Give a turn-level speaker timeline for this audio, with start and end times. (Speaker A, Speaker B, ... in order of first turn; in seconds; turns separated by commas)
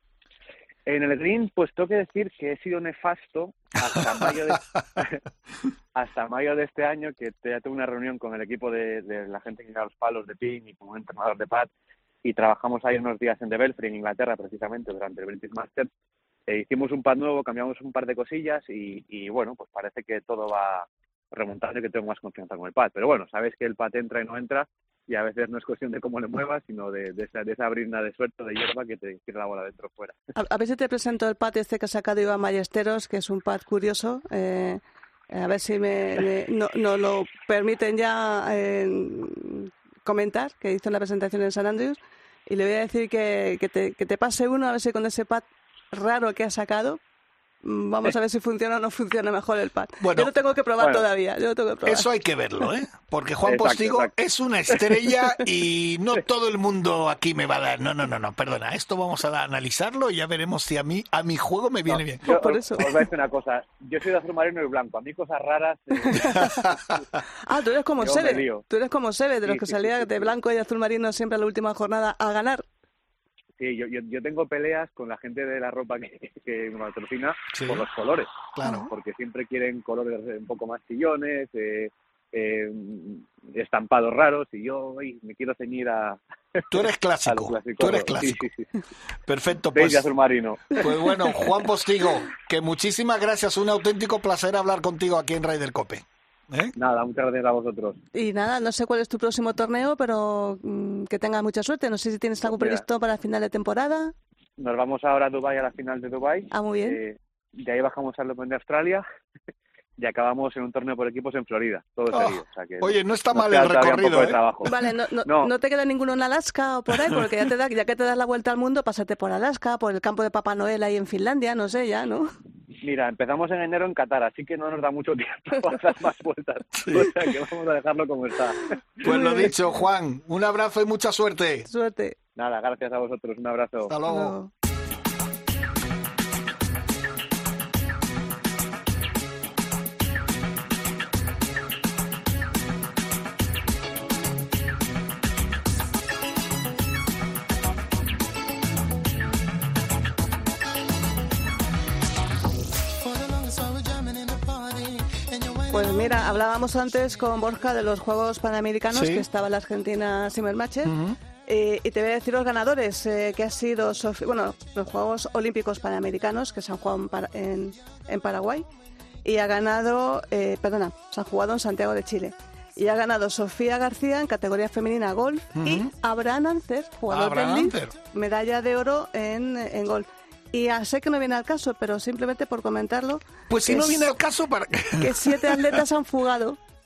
Speaker A: 0.8-5.1, Speaker A: 5.9-11.7, Speaker A: 12.2-15.9, Speaker A: 16.5-30.1, Speaker B: 30.4-47.0, Speaker B: 47.6-52.1, Speaker C: 50.0-50.3, Speaker C: 51.9-62.3, Speaker A: 53.4-54.1, Speaker A: 61.9-66.5, Speaker B: 62.2-63.1, Speaker B: 66.0-66.6, Speaker C: 66.3-66.9, Speaker B: 67.4-72.6, Speaker A: 68.0-68.7, Speaker A: 69.4-70.3, Speaker A: 73.6-86.6, Speaker C: 77.5-77.9, Speaker C: 78.5-78.9, Speaker B: 78.6-78.9, Speaker C: 86.7-88.4, Speaker A: 87.2-88.7, Speaker C: 89.2-90.1, Speaker A: 89.7-90.8, Speaker C: 90.8-96.8, Speaker A: 96.8-98.0, Speaker B: 98.1-104.1, Speaker A: 102.4-102.8, Speaker A: 104.6-109.0, Speaker B: 106.5-107.0, Speaker A: 110.0-114.7, Speaker C: 112.1-114.4, Speaker B: 114.6-122.3, Speaker A: 115.2-115.5, Speaker A: 122.8-129.0, Speaker C: 126.7-127.2, Speaker C: 129.0-131.7, Speaker B: 129.0-129.6, Speaker B: 131.7-132.2, Speaker A: 132.3-134.0, Speaker C: 133.9-134.3, Speaker B: 134.0-134.5, Speaker B: 155.7-168.7, Speaker C: 158.9-159.2, Speaker C: 160.8-161.2, Speaker B: 169.2-184.1, Speaker C: 175.5-175.9, Speaker C: 177.1-177.9, Speaker C: 183.5-185.8, Speaker B: 185.0-186.6